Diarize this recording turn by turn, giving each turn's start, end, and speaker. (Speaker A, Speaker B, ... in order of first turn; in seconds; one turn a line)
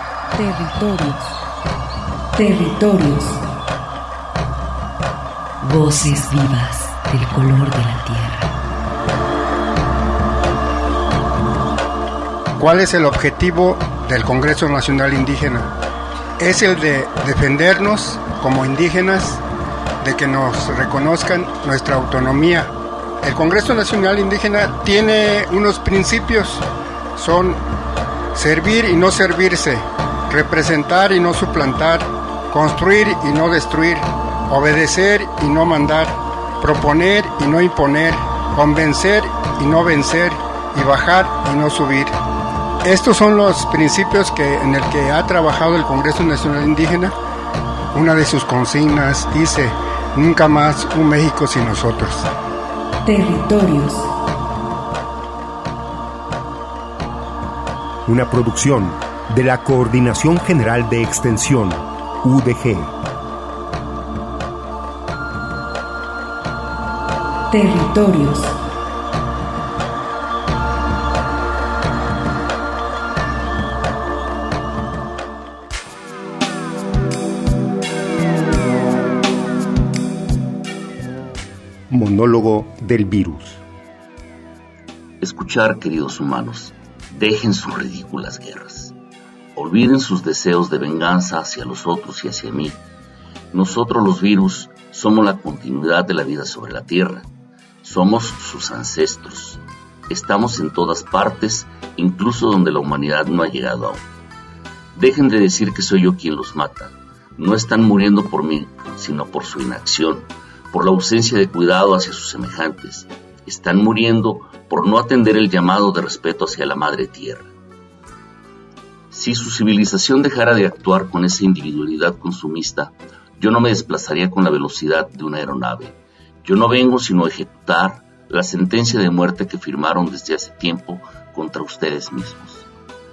Speaker A: 0.3-1.4
Speaker A: 2.3-3.4
Speaker A: 5.6-8.5
Speaker B: 12.6-15.7
Speaker B: 16.4-19.4
Speaker B: 20.0-22.7
Speaker B: 23.2-26.6
Speaker B: 27.2-27.6
Speaker B: 28.3-42.1
Speaker B: 42.8-47.1
Speaker B: 47.9-52.3
Speaker A: 53.0-54.1
Speaker C: 58.0-62.9
Speaker A: 67.5-68.5
Speaker C: 81.9-83.6
Speaker D: 85.2-88.9
Speaker D: 89.5-92.8
Speaker D: 93.5-97.3
Speaker D: 97.8-104.0
Speaker D: 104.9-117.5
Speaker D: 119.1-132.7